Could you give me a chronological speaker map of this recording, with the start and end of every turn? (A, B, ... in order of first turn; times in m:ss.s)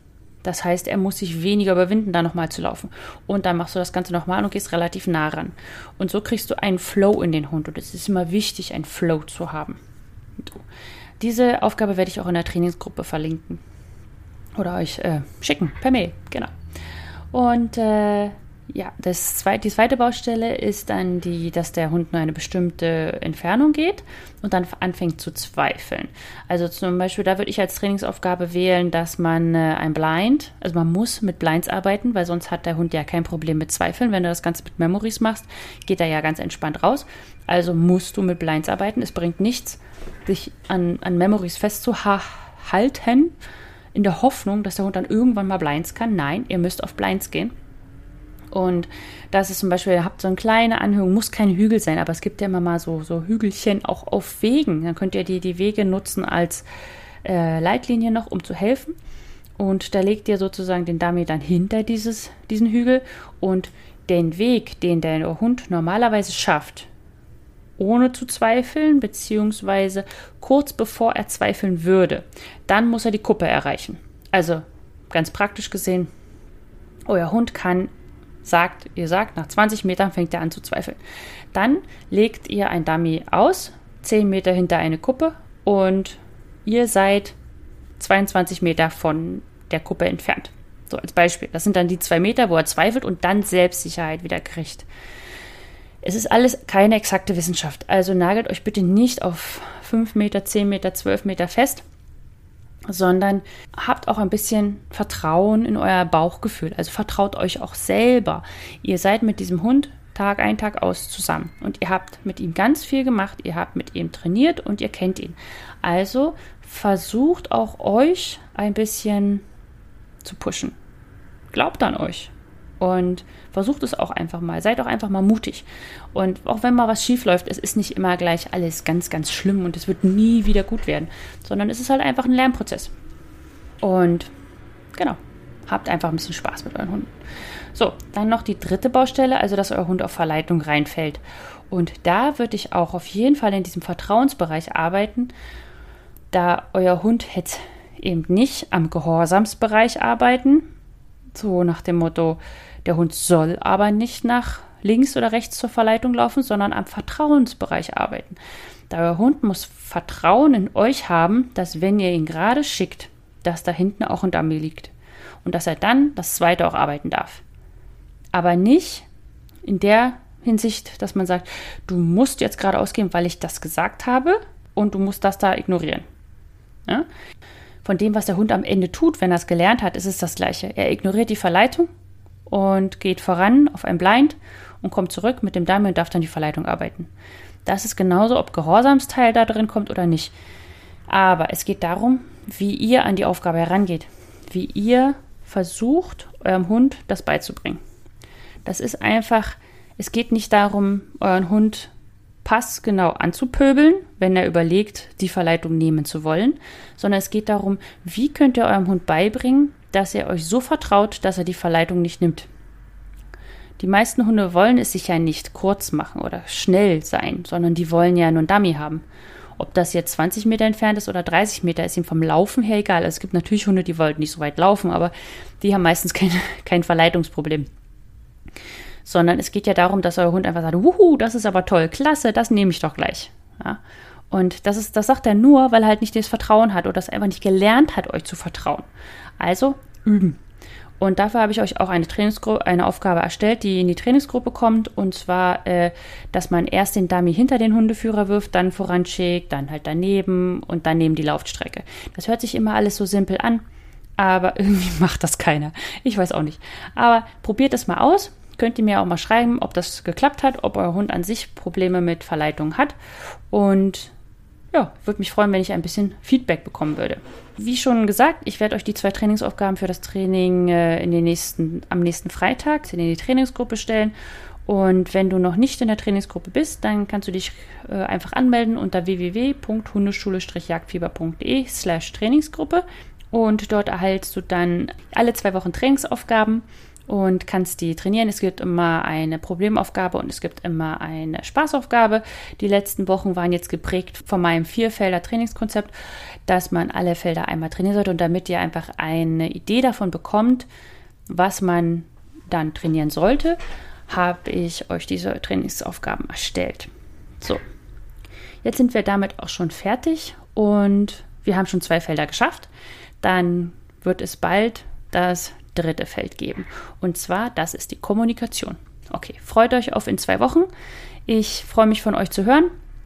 0:00.4-0:09.8 A
0:10.4-0:10.6 A
0:11.2-0:13.6 A
0:14.6-0:16.5 A
0:17.3-0:43.4 A
0:44.0-0:47.5 A
0:48.5-0:56.6 A
0:57.2-0:58.9 A
0:59.6-1:06.9 A
1:07.8-1:16.1 A
1:17.1-1:17.9 A
1:18.4-1:21.0 A
1:21.5-1:27.4 A
1:28.0-1:34.9 A
1:36.0-1:41.8 A
1:42.9-1:59.4 A
2:00.2-2:00.8 A
2:01.5-2:12.9 A
2:13.8-2:14.3 A
2:15.0-2:17.1 A
2:17.7-2:25.3 A
2:26.3-2:30.7 A
2:31.3-2:38.4 A
2:38.9-2:44.9 A
2:45.4-2:47.4 A
2:48.3-2:49.1 A
2:49.6-2:56.0 A
2:57.8-3:01.9 A
3:02.5-3:07.1 A
3:07.6-3:10.3 A
3:11.1-3:17.8 A
3:18.6-3:21.9 A
3:22.4-3:32.5 A
3:33.8-3:39.0 A
3:39.6-3:47.7 A
3:49.0-3:58.9 A
3:59.4-4:00.4 A
4:01.0-4:13.6 A
4:14.2-4:23.0 A
4:23.5-4:24.1 A
4:24.7-4:34.1 A
4:34.7-4:55.9 A
4:56.5-5:00.7 A
5:01.3-5:07.6 A
5:08.6-5:12.7 A
5:13.2-5:20.7 A
5:21.3-5:22.7 A